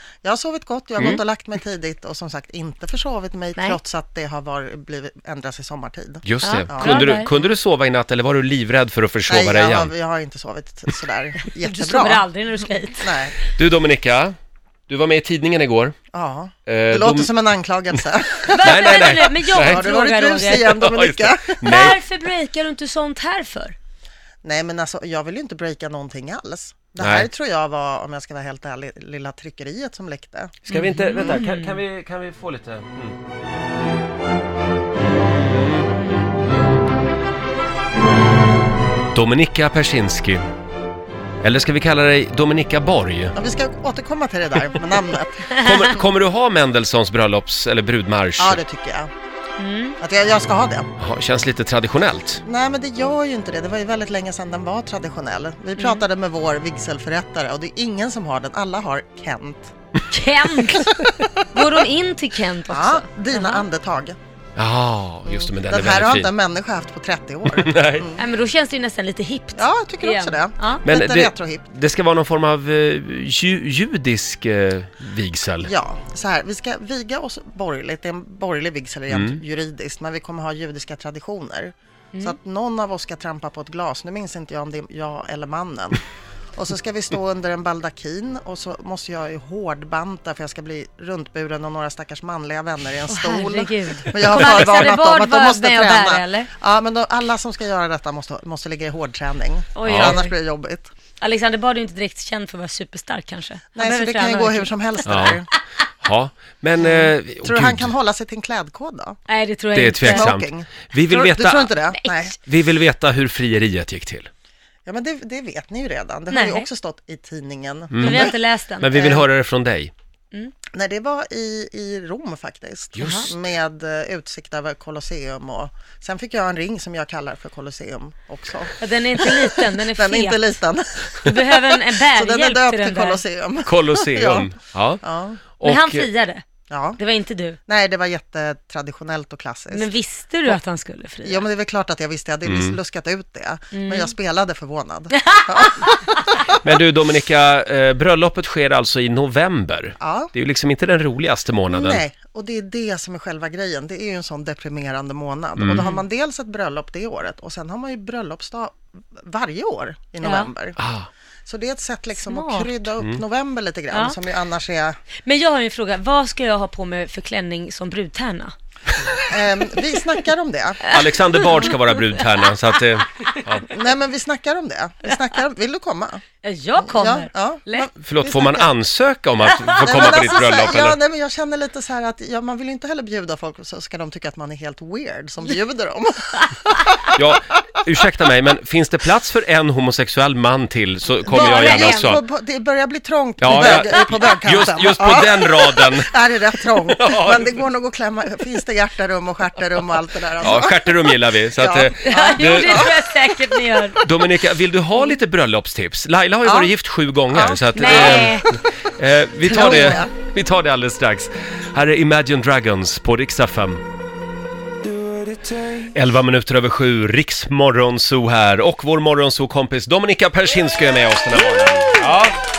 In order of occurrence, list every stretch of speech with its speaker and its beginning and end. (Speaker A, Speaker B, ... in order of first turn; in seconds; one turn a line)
Speaker A: 0.2-7.2
Speaker B: 6.2-9.9
Speaker C: 6.4-7.3
Speaker A: 9.3-12.2
Speaker C: 11.6-13.2
Speaker A: 13.0-13.3
Speaker B: 13.5-14.3
Speaker B: 14.9-15.9
Speaker A: 16.1-21.9
Speaker B: 16.7-17.3
Speaker C: 18.4-20.8
Speaker B: 18.6-19.9
Speaker B: 20.8-22.0
Speaker C: 21.6-23.8
Speaker A: 24.4-30.6
Speaker B: 27.0-27.3
Speaker B: 30.7-33.2
Speaker C: 30.7-31.8
Speaker A: 31.1-31.4
Speaker B: 35.3-35.9
Speaker B: 39.1-40.4
Speaker B: 41.4-43.4
Speaker A: 43.3-46.0
Speaker B: 45.5-48.6
Speaker A: 48.4-49.1
Speaker C: 49.6-50.0
Speaker A: 50.0-50.9
Speaker B: 51.0-52.4
Speaker A: 52.5-59.7
Speaker C: 55.8-56.0
Speaker C: 60.1-63.6
Speaker A: 60.7-61.6
Speaker A: 62.7-64.2
Speaker B: 64.6-66.3
Speaker A: 65.2-68.2
Speaker B: 67.5-68.1
Speaker C: 68.2-70.8
Speaker A: 69.6-71.7
Speaker B: 70.8-75.7
Speaker A: 75.6-86.0
Speaker B: 79.1-79.4
Speaker A: 86.6-100.9
Speaker C: 93.1-96.5
Speaker B: 94.2-94.9
Speaker C: 99.8-100.3
Speaker B: 99.8-100.2
Speaker C: 101.2-105.3
Speaker A: 103.8-105.5
Speaker B: 105.1-105.4
Speaker B: 106.0-107.9
Speaker A: 106.8-109.2
Speaker C: 109.3-110.3
Speaker B: 109.7-111.7
Speaker A: 110.0-112.4
Speaker C: 112.0-112.2
Speaker B: 112.4-114.3
Speaker A: 114.9-118.4
Speaker C: 116.3-116.7
Speaker B: 117.9-119.9
Speaker C: 118.0-119.0
Speaker A: 118.9-119.3
Speaker A: 120.7-135.4
Speaker B: 123.0-123.3
Speaker C: 123.0-123.3
Speaker C: 128.8-130.5
Speaker C: 131.2-133.2
Speaker B: 133.7-135.0
Speaker B: 135.6-136.1
Speaker C: 135.6-136.4
Speaker A: 136.7-137.0
Speaker C: 137.0-137.6
Speaker A: 137.7-139.9
Speaker C: 139.7-141.4
Speaker A: 141.2-146.6
Speaker B: 142.5-142.8
Speaker C: 143.7-144.1
Speaker C: 145.1-146.1
Speaker B: 146.6-152.0
Speaker A: 150.0-150.3
Speaker A: 151.7-160.8
Speaker B: 155.6-155.9
Speaker C: 155.7-156.0
Speaker C: 160.2-160.5
Speaker B: 160.8-161.1
Speaker A: 161.5-165.0
Speaker C: 162.2-162.7
Speaker C: 163.9-164.2
Speaker C: 165.2-168.5
Speaker A: 169.3-171.7
Speaker C: 170.8-172.5
Speaker B: 170.9-173.7
Speaker A: 173.6-176.2
Speaker C: 176.4-177.9
Speaker A: 176.8-178.7
Speaker B: 178.0-181.0
Speaker C: 179.5-180.2
Speaker A: 179.8-187.2
Speaker B: 187.1-192.2
Speaker C: 191.2-192.2
Speaker A: 191.2-203.1
Speaker B: 193.4-196.1
Speaker C: 193.5-193.9
Speaker B: 196.9-197.6
Speaker B: 200.4-202.9
Speaker C: 202.0-204.0
Speaker B: 204.0-213.8
Speaker A: 206.4-206.7
Speaker A: 207.3-208.6
Speaker C: 207.8-208.5
Speaker A: 209.4-210.1
Speaker C: 209.5-210.0
Speaker B: 215.8-222.4